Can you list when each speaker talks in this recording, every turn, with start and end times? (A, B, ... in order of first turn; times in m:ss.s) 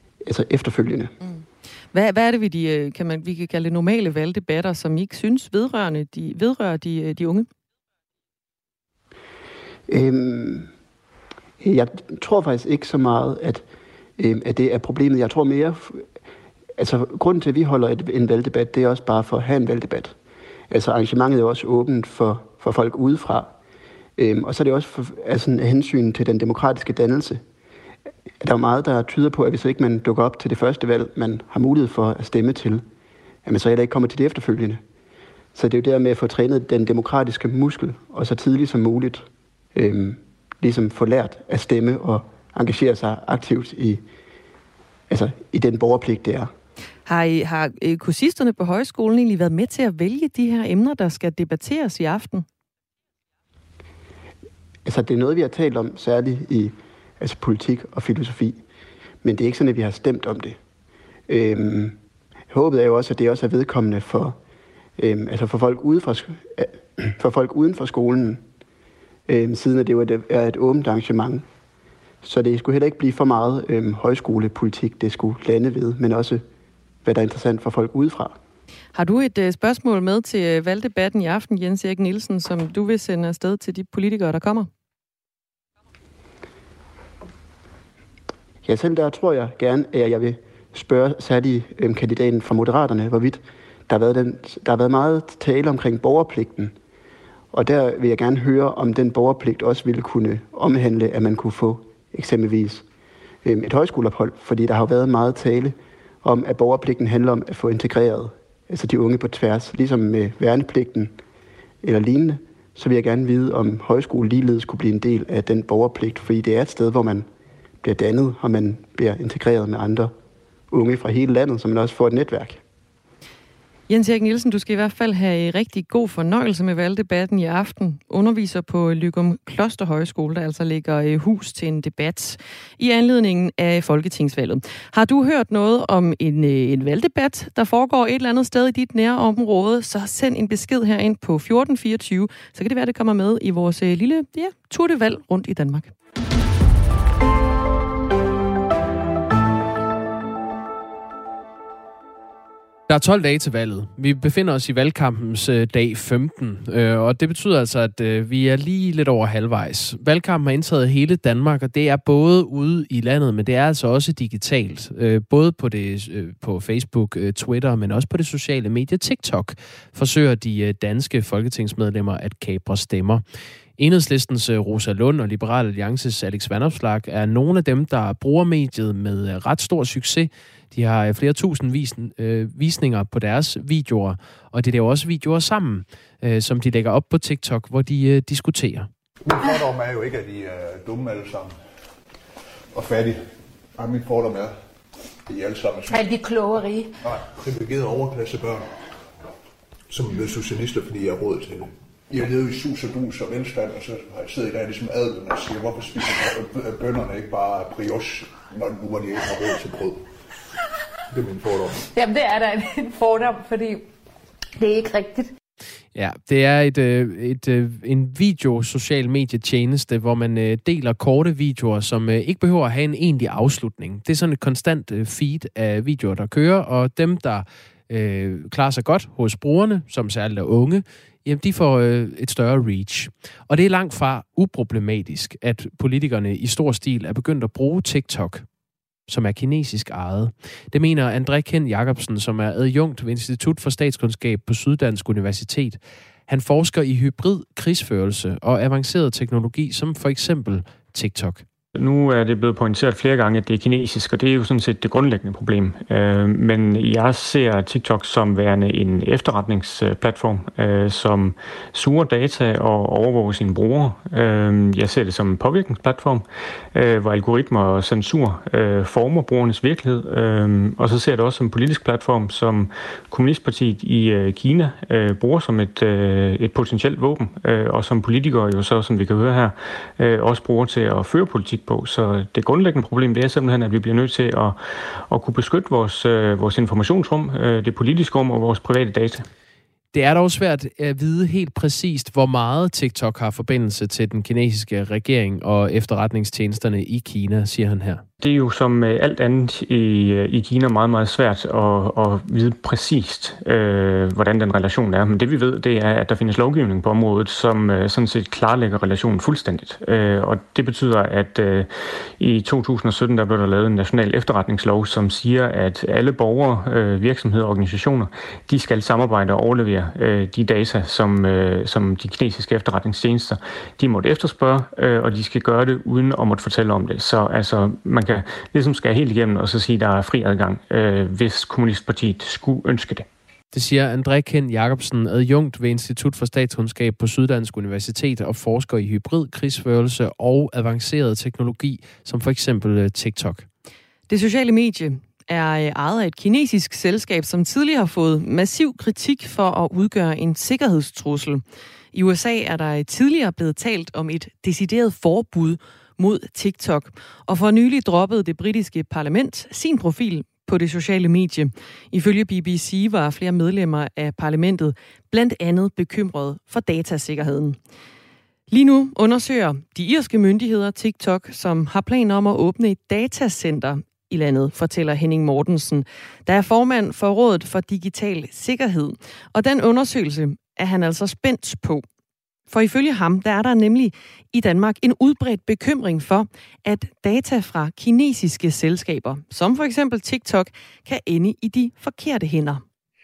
0:00.2-0:01.1 A
0:01.2-0:07.5 B
0:09.9-0:10.7 A
0:11.6-0:13.6 A
0:14.2-0:16.0 A
0:16.8-0:20.1 A
0:20.7-0:23.5 A
0:24.2-0:27.4 A
0:28.4-0:32.8 A
0:33.4-0:34.8 A
0:35.5-0:44.0 A
0:45.1-0:46.5 A
0:47.0-0:52.4 B
0:54.8-0:58.6 A
0:59.2-1:00.6 A
1:01.3-1:02.0 A
1:02.5-1:04.4 A
1:05.0-1:08.4 A
1:09.3-1:11.4 A
1:12.2-1:16.4 A
1:17.0-1:18.4 A
1:18.9-1:24.7 B
1:28.6-1:36.7 A
1:37.5-1:42.8 A
1:43.4-1:51.1 A
1:51.8-1:57.3 A
1:57.8-2:00.1 A
2:00.7-2:02.6 A
2:03.9-2:25.9 B
2:32.9-2:53.2 C
2:53.8-3:08.9 C
3:09.2-3:11.6 D
3:12.7-3:14.5 D
3:15.3-3:16.0 D
3:15.9-3:16.9 E
3:17.0-3:18.7 D
3:19.9-3:30.1 D
3:31.1-3:31.9 D
3:31.9-3:33.8 E
3:34.6-3:35.3 E
3:35.9-3:58.4 C
3:59.1-4:11.4 C
4:11.8-4:49.3 F
4:49.9-4:58.0 C
4:58.2-5:33.1 F
5:33.5-5:43.4 C
5:44.1-6:07.6 B
6:08.5-6:21.8 B
6:22.5-6:32.6 B